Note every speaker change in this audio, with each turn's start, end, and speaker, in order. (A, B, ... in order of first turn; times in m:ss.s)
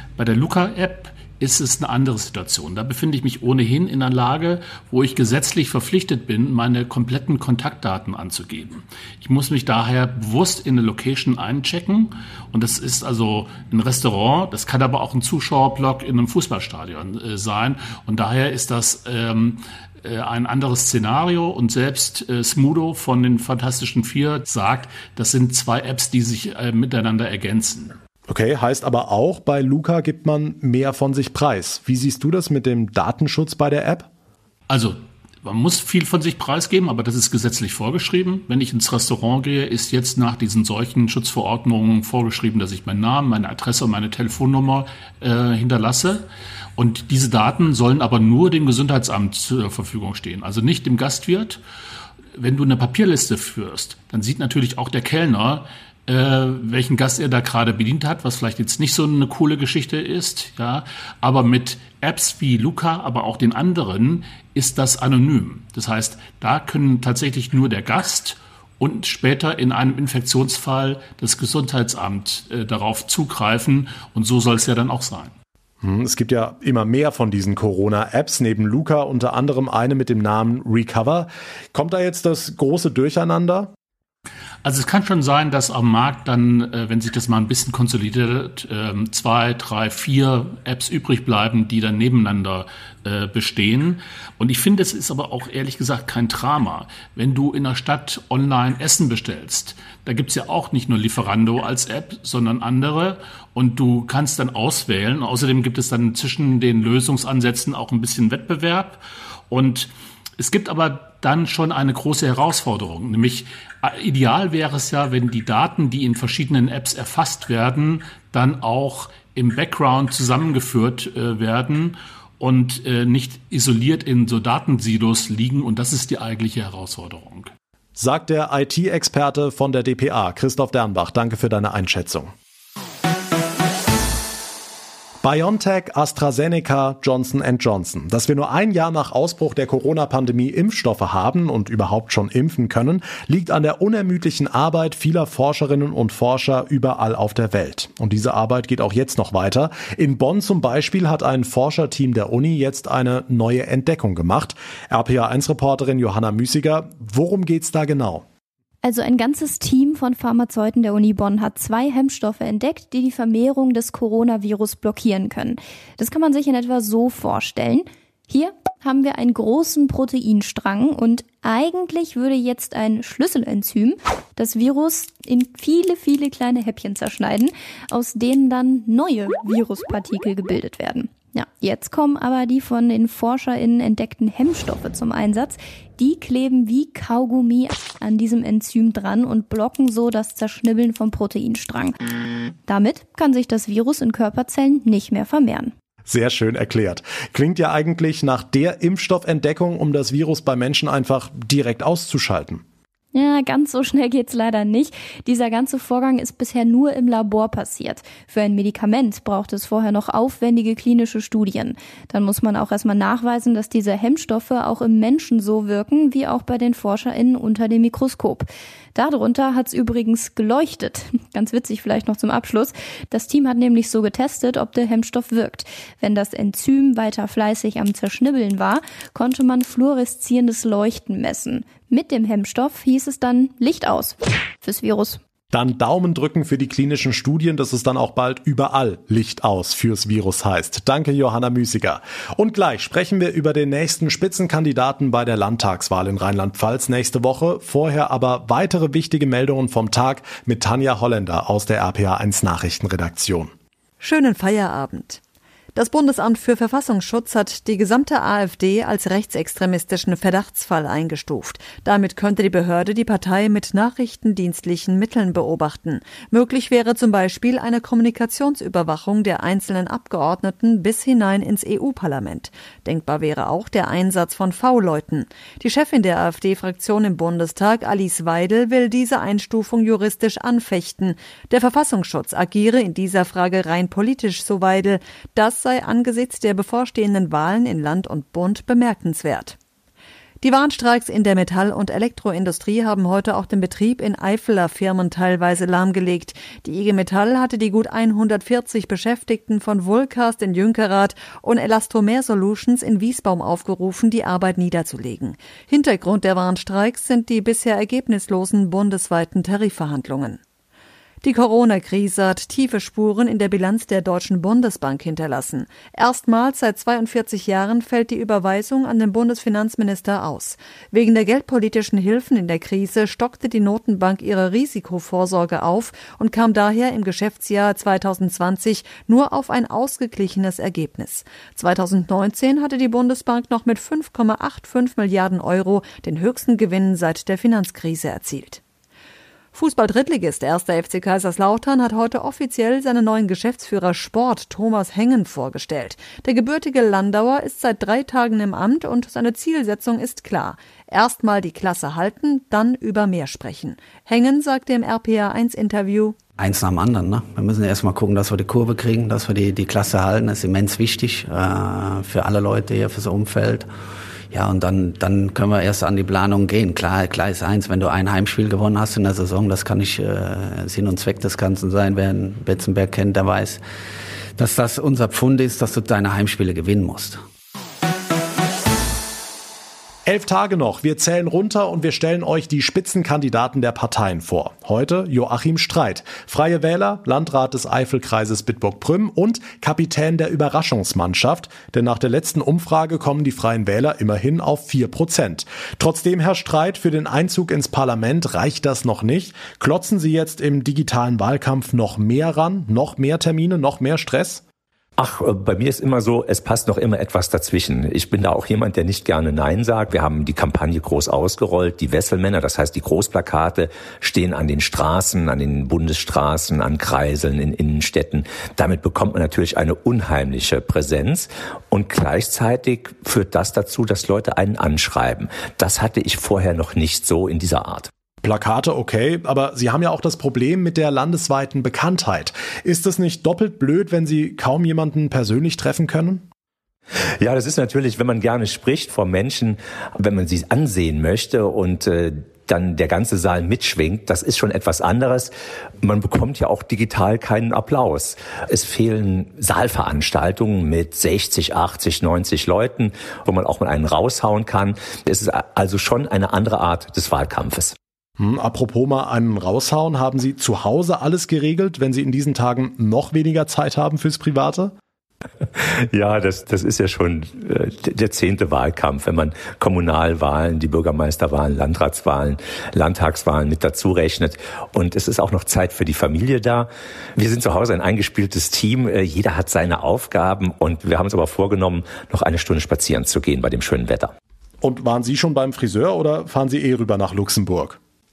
0:00.2-0:27.9 A
0:28.3-0:34.1 B
0:34.7-0:46.2 A
0:46.8-0:51.6 A
0:52.4-1:15.3 A
1:15.8-1:23.7 B
1:24.6-2:07.5 A
2:08.0-2:12.3 B
2:15.2-2:38.2 B
2:38.8-3:12.0 C
3:12.6-3:15.7 C
3:16.0-3:22.6 B
3:23.1-3:55.2 C
3:55.5-4:13.5 B
4:14.0-4:15.2 D
4:15.7-4:49.6 D
4:50.4-5:10.4 D
5:11.2-5:38.6 D
5:39.5-5:56.2 D
5:56.4-6:03.7 E
6:04.3-6:13.6 E
6:14.4-6:17.2 E
6:20.0-6:44.4 B
6:45.0-7:07.9 F
7:08.2-7:16.2 B
7:17.2-7:37.7 F
7:38.2-7:44.7 B
7:45.6-8:04.1 F
8:04.6-8:07.8 B